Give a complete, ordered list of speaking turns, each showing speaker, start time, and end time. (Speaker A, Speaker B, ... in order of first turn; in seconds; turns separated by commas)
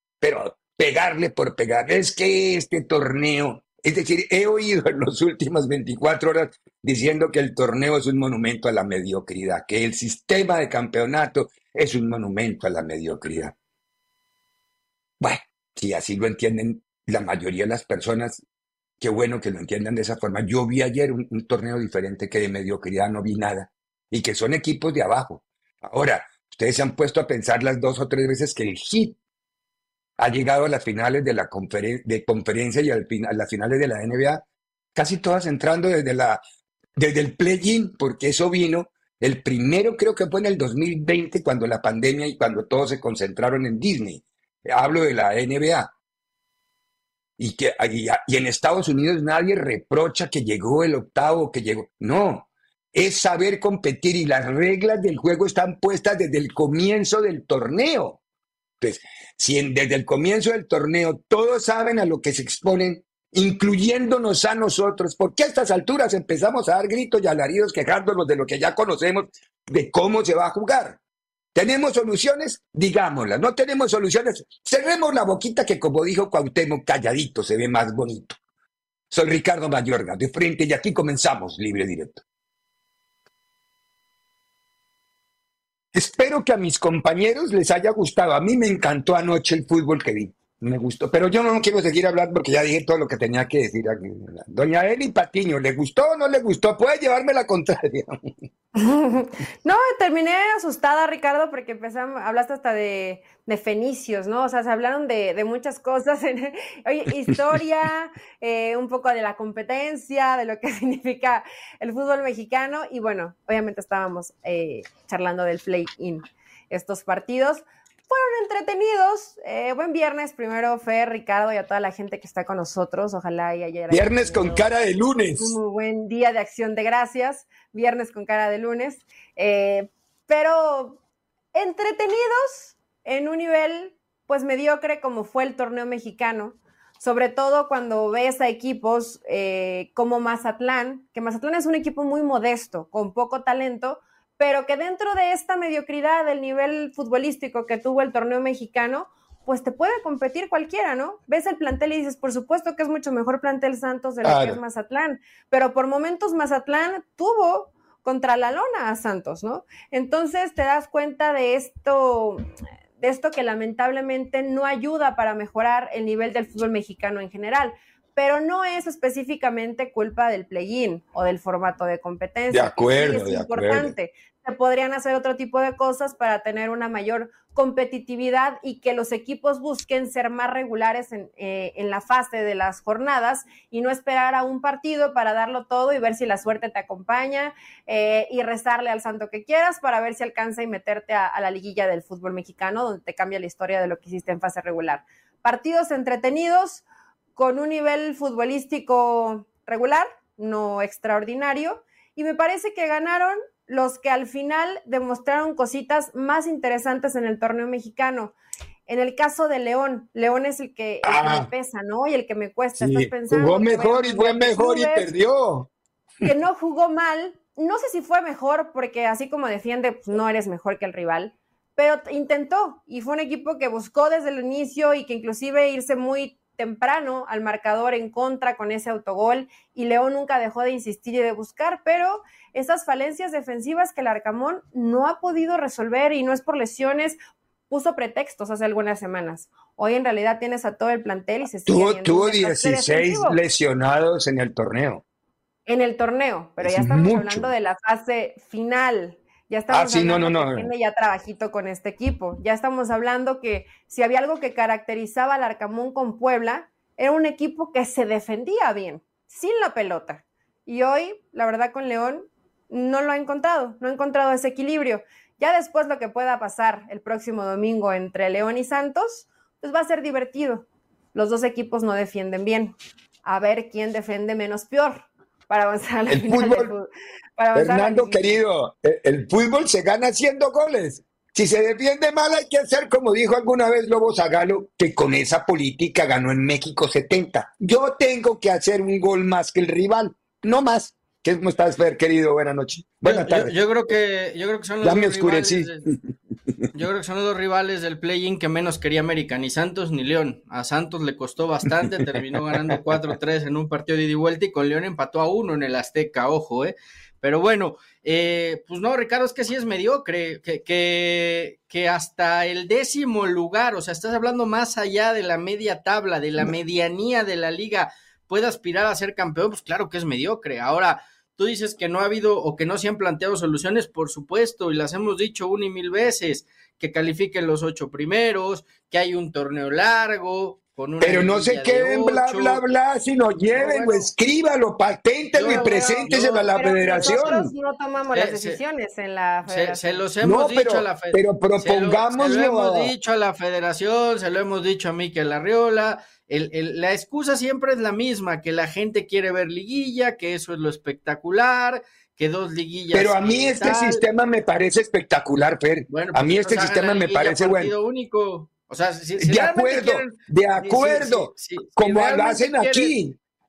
Speaker A: 0.2-13.5, Speaker A: 15.2-18.4, Speaker A: 19.0-29.2, Speaker A: 30.2-34.4, Speaker A: 34.9-36.4, Speaker A: 37.0-45.9, Speaker A: 47.4-58.2, Speaker A: 58.8-71.0, Speaker A: 71.5-78.4, Speaker A: 79.1-82.2, Speaker A: 85.9-98.2, Speaker B: 98.7-124.7, Speaker A: 123.9-125.6, Speaker B: 125.4-131.0, Speaker B: 131.5-162.4, Speaker A: 154.2-154.6, Speaker B: 163.0-196.8, Speaker A: 172.5-173.9, Speaker B: 197.4-208.3, Speaker B: 208.9-215.1, Speaker A: 211.0-211.5, Speaker A: 212.8-215.7, Speaker B: 216.2-237.2, Speaker B: 237.7-243.4, Speaker A: 241.7-245.0, Speaker B: 245.7-278.4, Speaker A: 246.6-247.5, Speaker A: 249.7-250.7, Speaker A: 276.1-276.7, Speaker A: 277.5-293.5, Speaker C: 293.0-295.9, Speaker A: 294.8-296.0, Speaker C: 296.7-332.6, Speaker A: 331.0-337.5, Speaker C: 333.5-334.1, Speaker C: 335.3-337.4, Speaker B: 335.5-340.0, Speaker C: 338.1-338.6, Speaker C: 339.5-354.0, Speaker A: 340.2-342.9, Speaker A: 352.9-357.7, Speaker C: 355.9-362.9, Speaker A: 359.2-363.1